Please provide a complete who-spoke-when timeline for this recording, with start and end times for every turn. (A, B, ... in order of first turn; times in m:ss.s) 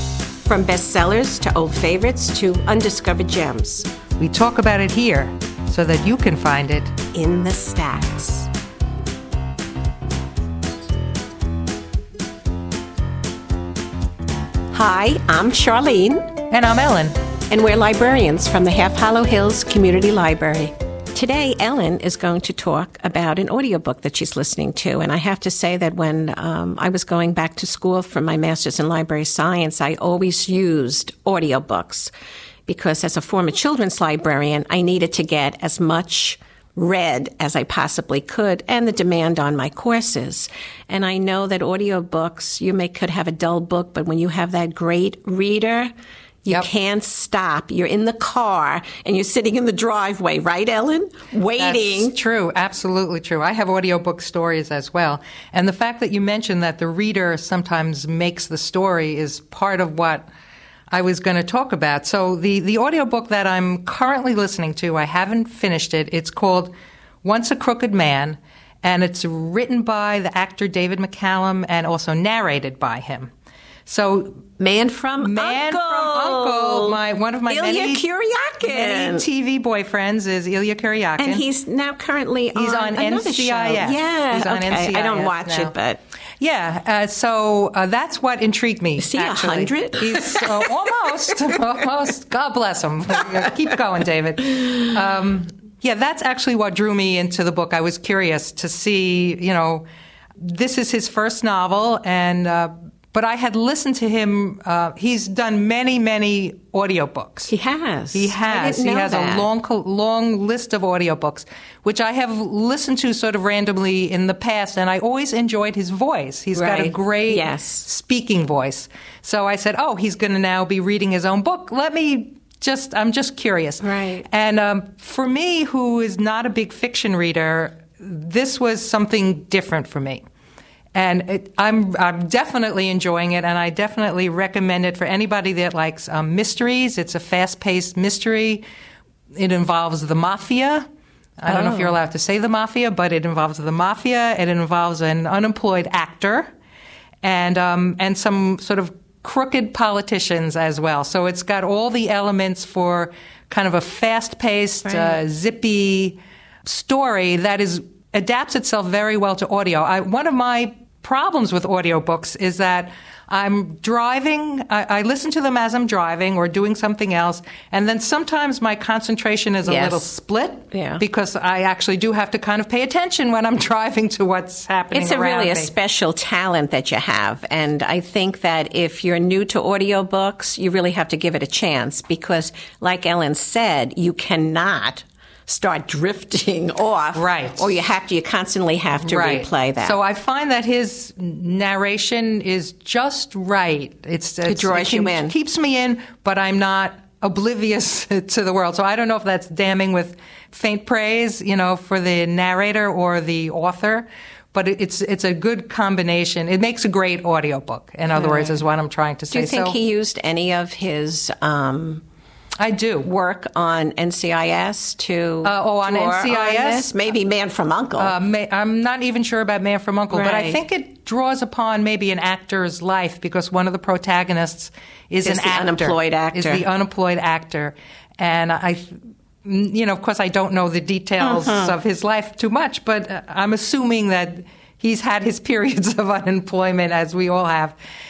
0:00.4-0:03.9 A
0:04.2-0:07.0 B
0:07.1-0:08.5 A
0:14.7-0:16.3 A
0:16.5-0:17.2 B
0:17.5-0:32.1 A
0:32.7-0:45.9 A
0:46.4-0:52.1 A
0:51.6-1:00.3 B
1:00.9-1:06.7 B
1:07.2-1:13.3 B
1:13.8-1:14.4 B
1:14.6-1:19.2 A
1:15.2-1:18.0 B
1:18.6-1:21.4 B
1:21.2-1:26.0 A
1:22.5-1:25.7 B
1:26.4-1:39.8 B
1:29.0-1:31.6 A
1:40.4-1:47.5 B
1:47.5-1:49.5 A
1:48.1-2:10.2 B
1:56.5-1:57.9 A
2:03.8-2:04.2 A
2:10.9-2:18.6 B
2:19.3-2:20.9 B
2:21.4-2:26.5 B
2:21.4-2:21.9 A
2:27.2-2:55.7 B
2:34.9-2:35.1 A
2:49.6-2:50.0 A
2:50.7-2:51.0 A
2:54.9-3:10.0 A
3:07.1-3:07.7 B
3:09.0-3:29.8 B
3:14.4-3:15.3 A
3:28.1-3:28.6 A
3:29.3-3:32.0 A
3:32.6-3:33.1 B
3:33.0-3:38.1 A
3:35.4-3:37.0 B
3:38.0-3:57.8 B
3:40.1-3:40.6 A
3:45.2-3:46.6 A
3:51.2-3:51.8 A